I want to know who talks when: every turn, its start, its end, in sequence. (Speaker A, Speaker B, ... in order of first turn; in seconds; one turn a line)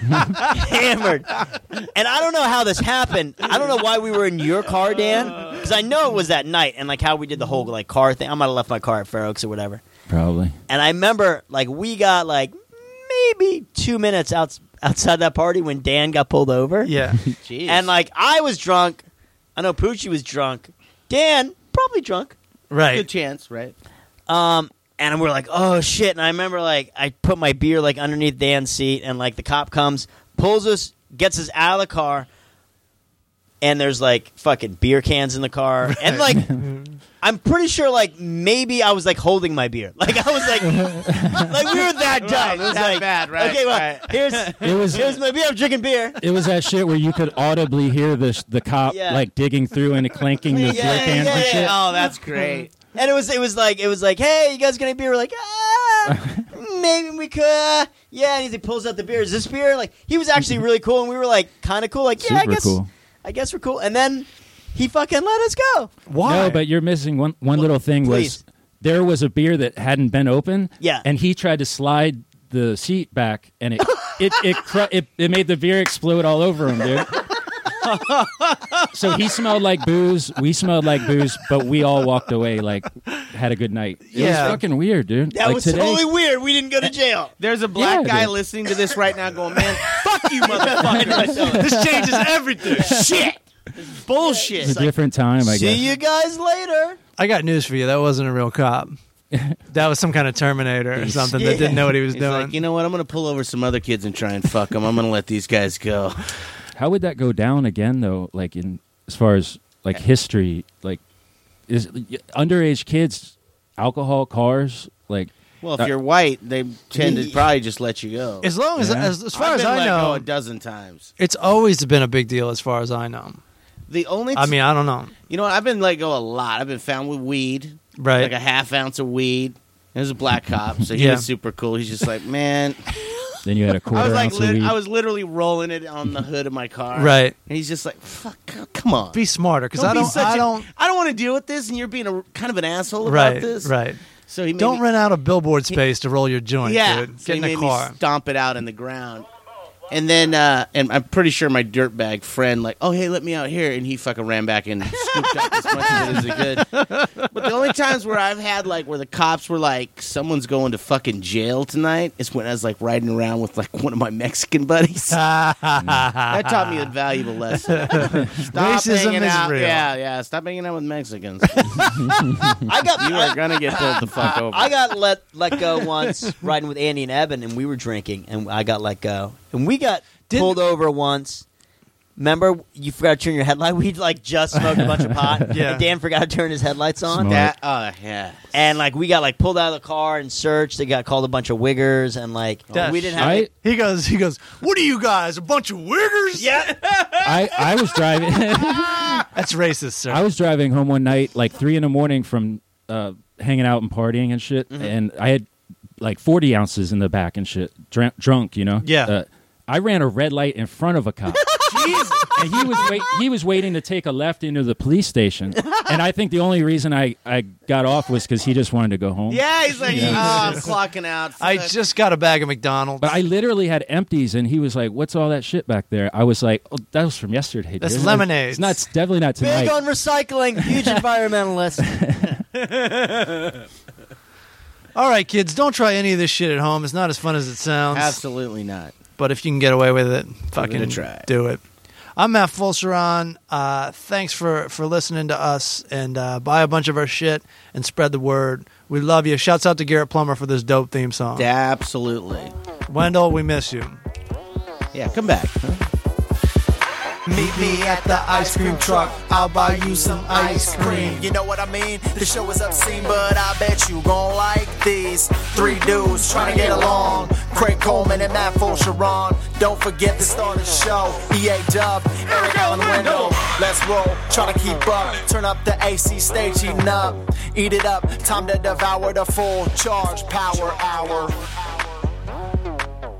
Speaker A: 0.3-9.8
Speaker B: 10.1-10.6
Speaker A: 10.7-16.9
Speaker C: 16.8-17.2
Speaker D: 17.4-17.9
Speaker A: 17.6-19.0
Speaker A: 19.6-22.4
Speaker C: 22.7-23.1
Speaker D: 22.9-23.7
Speaker A: 24.3-32.3
Speaker A: 33.6-36.5
Speaker C: 35.9-36.9
Speaker A: 37.2-46.2
Speaker B: 40.7-41.5
Speaker D: 42.1-45.0
Speaker B: 44.6-45.1
Speaker B: 46.2-51.8
Speaker A: 48.9-49.2
Speaker D: 50.5-52.7
Speaker A: 50.6-51.9
Speaker A: 52.9-65.9
Speaker B: 56.1-56.4
Speaker B: 62.2-62.9
Speaker C: 66.1-66.6
Speaker B: 66.2-77.2
Speaker A: 67.5-68.4
Speaker A: 70.8-71.0
Speaker C: 77.9-78.7
Speaker B: 78.9-86.0
Speaker C: 84.1-84.6
Speaker A: 85.3-87.3
Speaker D: 87.4-91.5
Speaker B: 87.7-88.3
Speaker A: 90.4-91.8
Speaker B: 90.9-92.3
Speaker C: 91.3-93.0
Speaker D: 92.7-94.8
Speaker A: 94.2-97.0
Speaker B: 94.6-95.9
Speaker C: 97.2-99.0
Speaker B: 99.3-99.6
Speaker C: 99.7-102.6
Speaker A: 101.3-101.9
Speaker D: 102.1-106.2
Speaker B: 106.7-111.0
Speaker B: 111.7-115.9
Speaker D: 115.6-118.5
Speaker A: 117.0-117.5
Speaker C: 118.4-120.3
Speaker B: 118.8-119.1
Speaker D: 119.3-121.1
Speaker C: 121.2-123.4
Speaker D: 123.9-124.6
Speaker C: 124.3-125.1
Speaker D: 125.3-132.8
Speaker C: 128.0-128.3
Speaker C: 130.9-131.3
Speaker B: 133.4-134.8
Speaker D: 133.9-139.2
Speaker C: 136.9-137.3
Speaker C: 139.1-140.7
Speaker D: 139.7-143.7
Speaker C: 143.0-144.0
Speaker D: 144.3-144.8
Speaker C: 144.6-148.0
Speaker D: 146.6-149.3
Speaker D: 149.9-165.2
Speaker C: 154.9-157.5
Speaker C: 165.1-166.9
Speaker D: 166.3-171.9
Speaker C: 167.5-169.9
Speaker C: 171.5-172.4
Speaker A: 172.6-181.4
Speaker D: 173.0-174.8
Speaker C: 180.3-180.6
Speaker A: 182.2-187.4
Speaker C: 185.5-185.9
Speaker B: 187.1-187.5
Speaker D: 187.2-188.4
Speaker A: 188.5-193.5
Speaker C: 192.7-196.6
Speaker B: 193.2-193.5
Speaker A: 196.4-196.8
Speaker D: 196.8-197.3
Speaker B: 197.2-199.2
Speaker D: 198.9-199.2
Speaker C: 199.3-200.2
Speaker B: 200.1-205.5
Speaker B: 206.0-211.6
Speaker C: 208.8-209.1
Speaker D: 211.6-212.4
Speaker B: 212.3-220.5
Speaker D: 219.3-221.8
Speaker C: 219.8-220.7
Speaker C: 221.4-223.2
Speaker B: 223.0-229.8
Speaker C: 227.8-228.8
Speaker A: 229.4-231.8
Speaker B: 230.6-230.9
Speaker B: 231.8-232.4
Speaker D: 232.5-233.6
Speaker C: 234.9-238.2
Speaker D: 237.9-238.9
Speaker C: 239.2-241.6
Speaker D: 240.6-241.3
Speaker C: 242.2-251.5
Speaker D: 251.3-252.5
Speaker C: 252.9-254.0
Speaker D: 254.9-255.8
Speaker C: 257.3-261.3
Speaker E: 257.3-281.5
Speaker D: 272.3-273.5